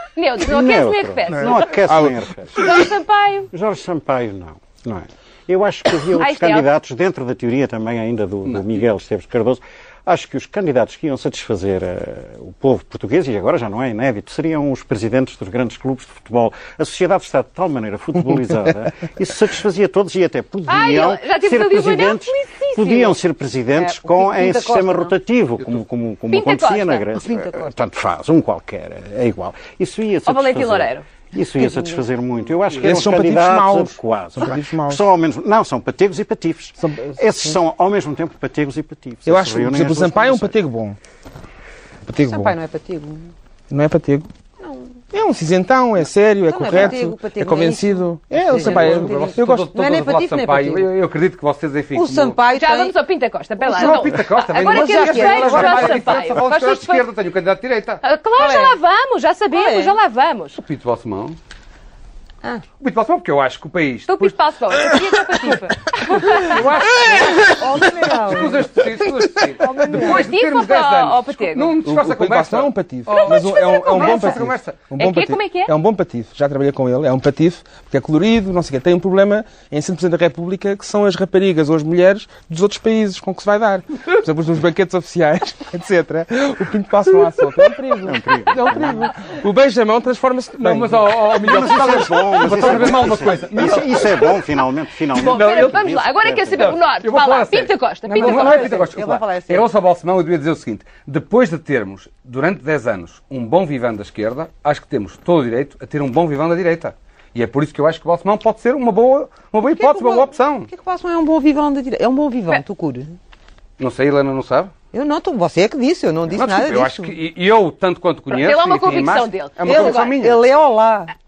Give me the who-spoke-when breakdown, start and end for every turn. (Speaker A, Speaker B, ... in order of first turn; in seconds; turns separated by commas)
Speaker A: 0.2-1.7, Speaker B: 0.4-2.8, Speaker C: 1.4-2.3, Speaker A: 2.6-3.5, Speaker B: 3.5-40.5, Speaker A: 6.2-6.7, Speaker D: 8.5-8.8, Speaker A: 20.7-23.2, Speaker E: 23.8-25.1, Speaker A: 26.3-27.1, Speaker E: 27.2-27.7, Speaker A: 30.2-31.1, Speaker C: 32.8-35.1, Speaker C: 36.8-37.6, Speaker C: 39.2-41.0, Speaker C: 42.1-42.6, Speaker E: 42.2-43.3, Speaker C: 43.7-44.3, Speaker E: 44.6-44.9, Speaker C: 45.1-49.7, Speaker E: 46.5-50.9, Speaker D: 48.5-52.4, Speaker E: 52.0-52.9, Speaker A: 52.5-57.1, Speaker E: 53.6-56.4, Speaker D: 53.7-58.0, Speaker A: 58.0-60.6, Speaker E: 58.4-58.8, Speaker E: 59.5-60.0, Speaker D: 60.6-61.4, Speaker D: 62.8-64.4, Speaker A: 64.1-66.7, Speaker D: 66.2-74.8, Speaker E: 67.1-68.8, Speaker E: 69.6-70.2, Speaker A: 69.9-71.8, Speaker C: 71.8-91.3, Speaker A: 73.1-74.4, Speaker A: 75.0-75.7, Speaker B: 88.0-89.1, Speaker D: 90.6-94.4, Speaker B: 91.4-96.8, Speaker A: 95.1-98.8, Speaker D: 95.2-95.8, Speaker D: 96.6-110.7, Speaker E: 98.1-99.7, Speaker E: 109.6-113.2, Speaker D: 113.8-114.7, Speaker E: 114.9-117.1, Speaker D: 116.3-120.4, Speaker A: 118.3-120.2, Speaker E: 119.6-121.1